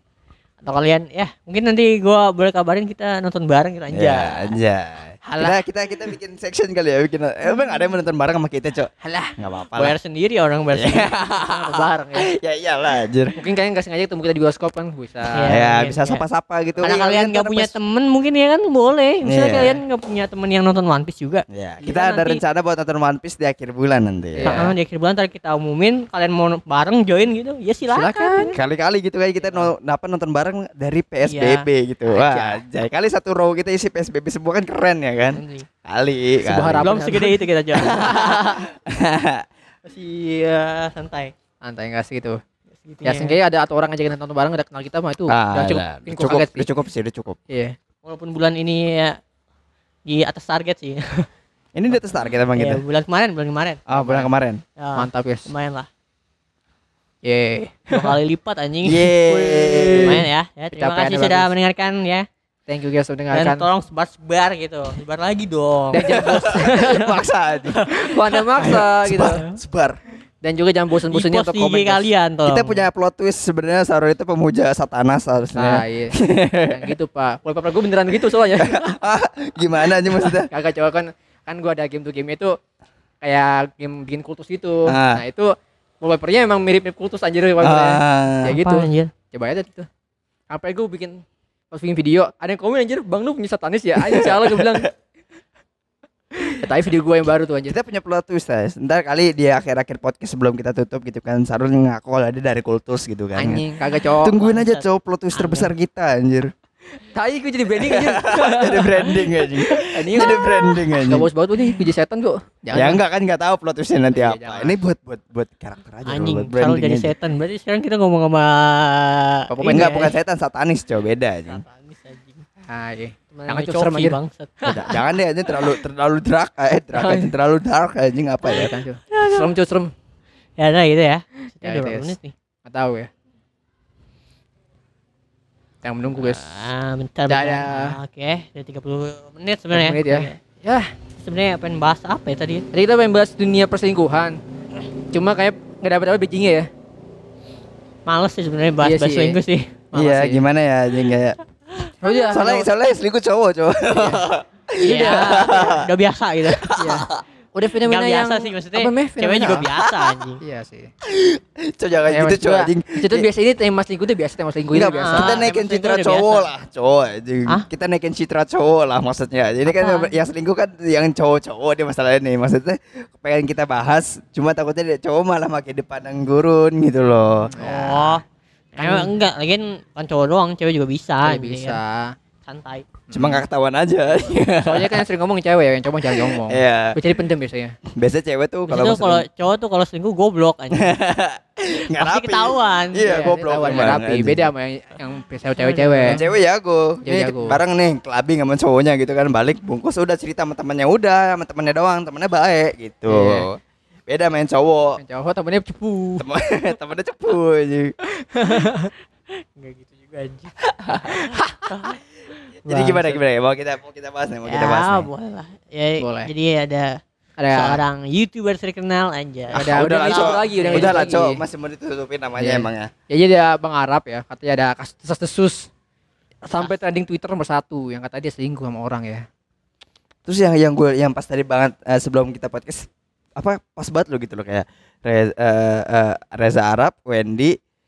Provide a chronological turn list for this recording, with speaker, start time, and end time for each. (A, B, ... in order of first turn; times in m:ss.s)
0:00.6-0:04.6 A
0:03.9-0:10.0 B
0:05.2-0:05.6 C
0:09.0-0:09.4 C
0:09.8-0:12.3 A
0:10.8-0:13.4 B
0:13.4-0:15.5 C
0:15.4-0:16.2 A
0:15.5-0:17.8 B
0:16.8-0:22.4 A
0:19.3-0:19.8 B
0:21.5-0:24.7 B
0:24.4-0:24.7 C
0:24.5-0:28.6 A
0:27.9-0:28.5 C
0:28.5-0:36.9 B
0:31.2-0:31.7 A
0:32.1-0:32.6 C
0:35.3-0:35.7 A
0:36.4-0:38.0 C
0:36.8-0:38.6 A
0:37.8-0:39.4 B
0:39.8-0:41.3 A
0:41.6-0:42.4 C
0:42.8-0:43.4 A
0:43.0-0:46.7 C
0:45.3-0:47.4 B
0:47.5-0:47.8 C
0:48.0-0:49.2 A
0:50.0-0:51.3 A
0:51.8-0:52.8 B
0:52.6-0:55.9 A
0:53.9-0:54.6 B
0:55.0-0:55.5 C
0:57.2-0:58.2 C
0:57.9-0:59.2 A
0:58.8-1:00.2 B
0:59.3-1:01.5 C
0:59.9-1:02.3 A
1:02.7-1:03.7 C
1:03.3-1:07.0 A
1:05.9-1:07.1 C
1:06.0-1:07.9 B
1:07.7-1:09.5 A
1:08.0-1:09.4 C
1:08.6-1:10.0 B
1:10.4-1:12.1 C
1:11.1-1:12.8 A
1:12.5-1:17.0 B
1:15.6-1:19.0 C
1:18.6-1:20.5 B
1:20.1-1:22.6 C
1:23.2-1:29.9 C
1:24.9-1:25.2 B
1:27.6-1:28.6 B
1:28.4-1:29.1 A
1:30.5-1:34.9 C
1:34.0-1:34.8 B
1:36.4-1:37.8 C
1:37.7-1:43.6 B
1:43.4-1:44.4 C
1:44.2-1:46.5 B
1:44.3-1:44.8 A
1:45.4-1:45.7 A
1:47.0-1:53.0 C
1:47.8-1:51.3 B
1:52.7-1:57.1 B
1:54.1-1:54.8 C
1:56.1-2:00.1 A
1:59.5-1:59.9 C
1:59.6-2:01.6 B
2:01.5-2:02.4 A
2:02.7-2:05.0 C
2:03.3-2:04.8 A
2:04.7-2:08.7 B
2:06.9-2:07.4 C
2:08.4-2:09.9 C
2:09.1-2:09.5 A
2:10.6-2:12.3 A
2:11.6-2:13.1 C
2:15.8-2:16.5 C
2:16.2-2:20.4 A
2:17.3-2:18.0 C
2:19.7-2:20.9 C
2:21.2-2:22.7 A
2:22.7-2:24.4 C
2:25.1-2:26.7 C
2:28.1-2:29.8 A
2:28.8-2:29.4 C
2:29.9-2:30.4 C
2:29.9-2:31.4 B
2:31.8-2:32.3 A
2:32.0-2:32.7 C
2:32.3-2:35.9 B
2:33.9-2:34.2 C
2:34.8-2:36.8 A
2:34.9-2:35.7 C
2:36.5-2:37.0 B
2:36.8-2:39.7 C
2:37.8-2:40.4 A
2:39.8-2:40.2 B
2:40.4-2:40.9 C
2:41.0-2:43.3 B
2:42.1-2:45.4 C
2:44.7-2:57.5 B
2:45.1-2:46.5 A
2:49.7-2:50.1 A
2:57.5-2:58.2 C
2:57.6-2:58.2 A
2:58.8-2:59.1 C
2:58.8-3:01.8 A
3:01.2-3:02.1 C
3:02.4-3:02.9 A
3:03.1-3:03.4 C
3:03.1-3:05.0 B
3:04.6-3:07.8 C
3:06.1-3:07.0 B
3:07.9-3:09.3 B
3:08.7-3:11.0 A
3:10.7-3:14.5 B
3:11.9-3:13.9 A
3:13.0-3:16.2 C
3:15.6-3:16.3 A
3:16.1-3:25.0 B
3:17.0-3:17.6 C
3:23.1-3:23.5 C
3:25.0-3:26.3 C
3:26.2-3:27.9 B
3:28.3-3:28.9 C
3:29.4-3:32.0 A
3:30.9-3:31.7 C
3:32.7-3:35.1 B
3:32.7-3:33.2 C
3:34.5-3:37.0 A
3:36.0-3:36.3 C
3:37.4-3:37.8 C
3:37.5-3:41.0 A
3:39.5-3:42.9 B
3:39.6-3:41.4 C
3:42.4-3:45.7 C
3:46.5-3:49.3 C
3:50.3-3:57.6 B